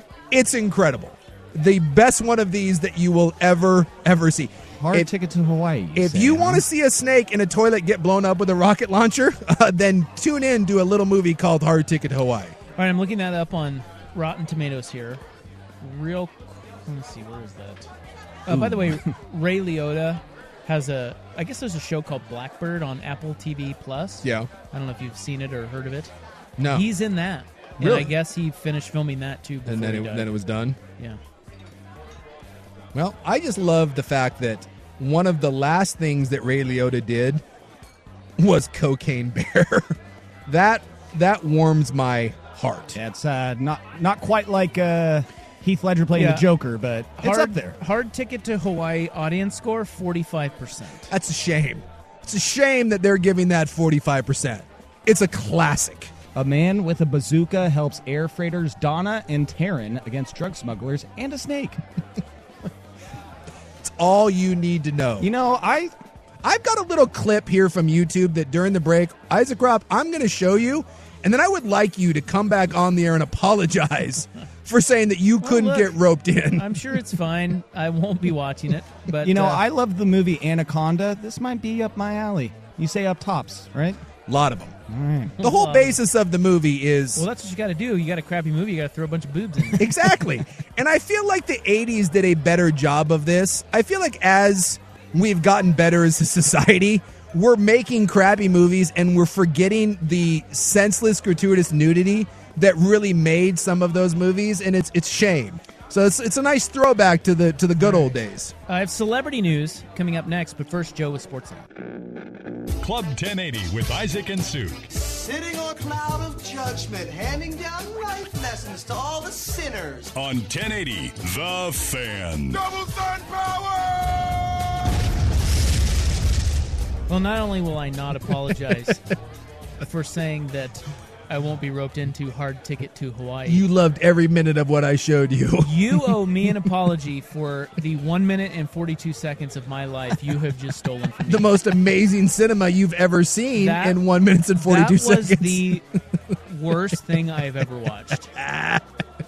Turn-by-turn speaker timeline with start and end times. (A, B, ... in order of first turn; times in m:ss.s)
0:00.3-0:05.1 A
0:04.8-0:06.6 B
0:06.0-0:12.6 A
0:12.8-0:15.2 C
0:15.8-0:17.9 C
0:18.5-0:26.1 C
0:18.5-0:18.8 A
0:24.2-0:24.5 A
0:26.6-0:26.9 A
0:26.7-0:30.4 C
0:27.8-0:28.2 A
0:29.7-0:30.8 A
0:32.9-0:37.4 A
0:38.4-0:40.0 A
0:40.5-0:43.0 A
0:43.0-0:47.8 B
0:46.2-0:46.5 C
0:47.2-0:51.1 C
0:51.1-0:56.1 A
0:56.4-1:01.8 B
1:03.8-1:05.3 A
1:05.2-1:05.9 B
1:06.4-1:16.8 A
1:15.4-1:19.6 C
1:19.2-1:24.0 B
1:24.3-1:24.8 A
1:24.9-1:25.4 B
1:25.4-1:27.3 A
1:25.4-1:26.0 C
1:27.2-1:30.0 C
1:29.8-1:48.5 A
1:47.8-1:48.2 C
1:48.7-1:51.7 C
1:52.8-1:54.9 D
1:54.9-2:00.1 E
2:00.2-2:02.6 D
2:02.5-2:04.7 E
2:07.1-2:09.1 C
2:09.8-2:13.7 C
2:13.5-2:16.2 A
2:15.6-2:21.6 C
2:21.2-2:25.8 A
2:23.6-2:24.0 C
2:24.6-2:25.8 C
2:26.5-2:28.3 C
2:28.3-2:28.8 A